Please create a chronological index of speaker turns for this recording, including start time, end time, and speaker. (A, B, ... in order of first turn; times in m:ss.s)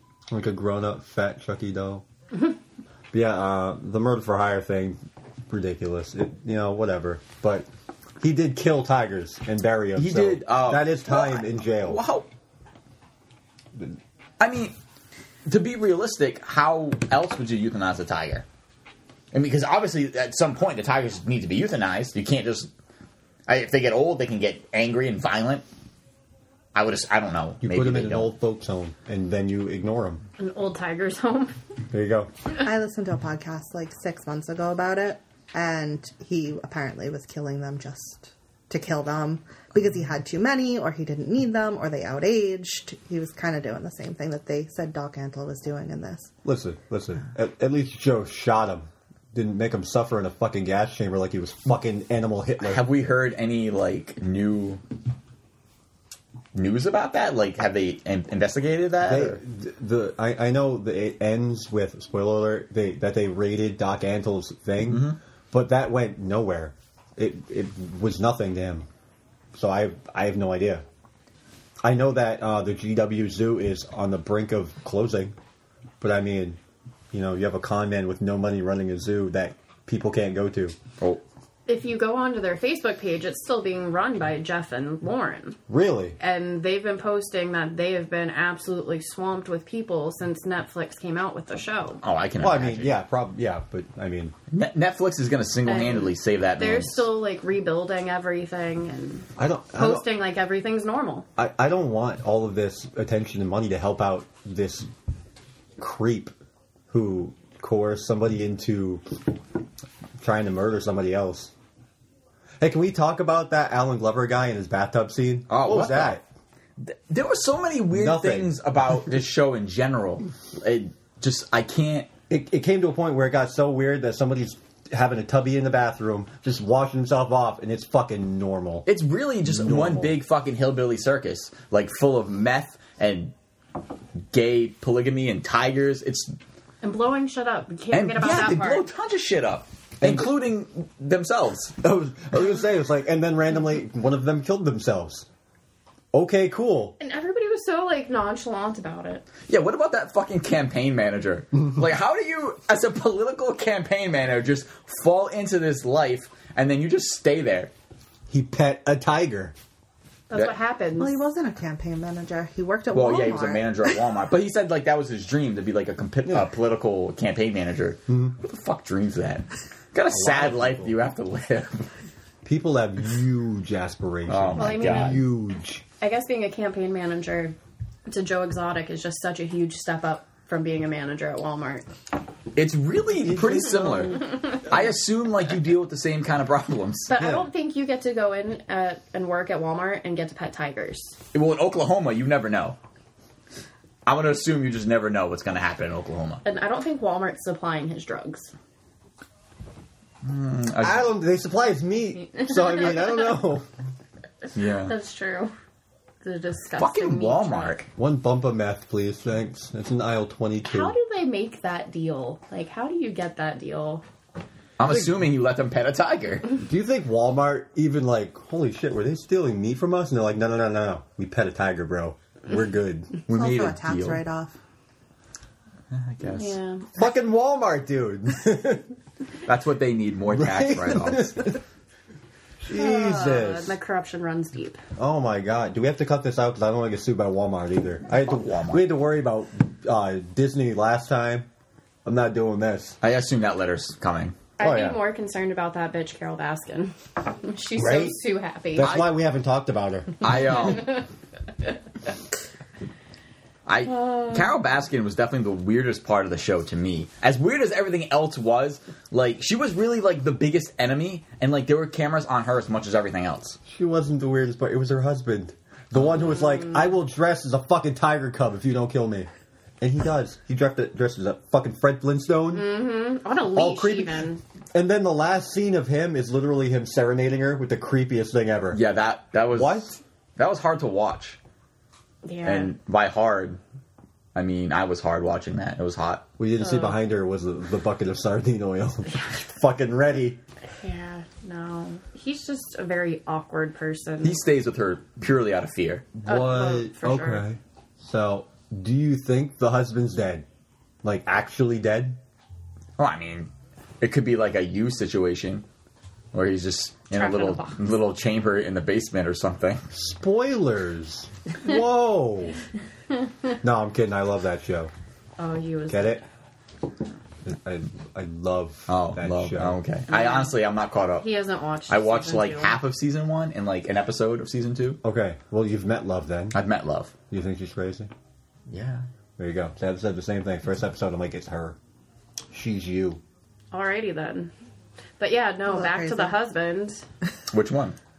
0:00.3-0:02.0 A
0:03.1-0:07.7 A
0:08.2-0:12.0 A
0:10.0-0:12.3 B
0:14.4-0:14.7 B
0:15.4-0:18.4 B
0:19.3-0:22.7 B
0:23.5-0:25.6 B
0:26.7-0:28.3 B
0:27.6-0:30.2 A
0:30.4-0:31.5 C
0:31.9-0:32.3 A
0:32.6-0:46.3 D
0:46.4-0:52.8 A
0:52.6-0:54.8 B
0:56.5-0:59.4 B
0:59.0-1:08.9 A
1:04.9-1:05.2 B
1:09.5-1:10.8 A
1:11.8-1:15.4 A
1:16.0-1:16.6 A
1:17.1-1:20.8 A
1:21.7-1:25.6 C
1:25.7-1:26.2 A
1:26.2-1:32.0 C
1:32.0-1:33.0 B
1:32.4-1:34.3 A
1:34.5-1:37.0 B
1:35.7-1:41.2 C
1:39.4-1:40.0 A
1:41.4-1:44.9 A
1:45.8-1:46.3 A
1:46.9-1:49.2 A
1:50.2-1:51.5 A
1:52.6-1:56.2 A
1:55.5-1:56.2 B
1:56.8-2:02.1 B
1:57.9-1:58.5 A
2:02.3-2:08.9 A
2:08.9-2:13.3 B
2:09.4-2:10.1 A
2:14.3-2:16.3 B
2:16.8-2:18.8 C
2:17.9-2:21.7 B
2:20.0-2:20.3 A
2:21.8-2:25.2 A
2:26.1-2:27.0 A
2:27.0-2:29.2 C
2:29.5-2:37.7 B
2:38.3-2:39.5 A
2:40.3-2:41.2 C
2:41.0-2:44.1 D
2:42.9-2:51.9 B
2:46.2-2:46.5 A
2:48.1-2:48.4 A
2:50.1-2:50.9 A
2:52.4-2:55.8 A
2:54.3-2:55.2 B
2:54.6-2:55.2 C
2:56.0-2:57.5 C
2:58.1-3:01.8 C
3:02.5-3:07.1 B
3:03.2-3:04.3 A
3:07.1-3:11.1 C
3:07.1-3:07.5 A
3:11.3-3:12.8 B
3:14.0-3:16.4 B
3:16.4-3:18.5 C
3:20.2-3:21.1 B
3:20.8-3:23.6 A
3:24.5-3:24.9 B
3:24.8-3:25.5 C
3:26.2-3:27.8 C
3:26.8-3:27.8 B
3:28.0-3:30.9 A
3:30.6-3:34.0 C
3:34.8-3:36.5 B
3:36.6-3:43.1 A
3:43.3-3:44.2 B
3:43.3-3:44.5 D
3:45.9-3:46.6 B
3:46.2-3:46.9 C
3:46.9-3:48.9 A
3:49.4-3:51.5 B
3:50.3-3:51.6 A
3:52.6-3:53.7 A
3:52.7-3:54.8 C
3:55.0-4:01.5 A
3:58.1-3:58.8 B
4:02.0-4:03.0 A
4:03.0-4:04.4 B
4:04.6-4:09.0 C
4:04.6-4:05.0 A
4:07.8-4:08.2 A
4:08.7-4:10.3 A
4:08.8-4:09.1 B
4:10.2-4:11.0 B
4:13.6-4:23.6 B
4:13.8-4:14.5 C
4:23.6-4:29.3 A
4:29.8-4:32.8 A
4:32.5-4:34.4 C
4:33.5-4:34.2 A
4:34.7-4:38.8 A
4:38.7-4:41.4 B
4:39.5-4:40.0 A
4:42.2-4:42.7 C
4:42.4-4:43.6 B
4:44.3-4:46.3 B
4:46.4-4:50.4 A
4:46.6-4:47.0 C
4:50.8-4:54.4 C
4:54.2-4:56.2 B
4:56.2-5:00.4 A
4:56.2-4:57.4 C
5:01.0-5:02.2 A
5:03.0-5:05.6 B
5:06.3-5:09.9 B
5:07.1-5:07.8 C
5:09.9-5:12.6 A
5:13.6-5:14.9 A
5:15.4-5:16.2 C
5:15.9-5:16.2 A
5:17.4-5:19.8 A
5:18.9-5:21.3 B
5:20.1-5:20.5 C
5:21.2-5:22.8 C
5:21.9-5:25.0 B
5:25.0-5:26.6 A
5:26.5-5:27.1 B
5:27.3-5:28.1 A
5:28.7-5:29.0 B
5:29.4-5:31.8 A
5:32.5-5:33.2 A
5:33.7-5:34.5 C
5:35.2-5:37.0 C
5:35.7-5:36.4 D
5:37.5-5:38.0 B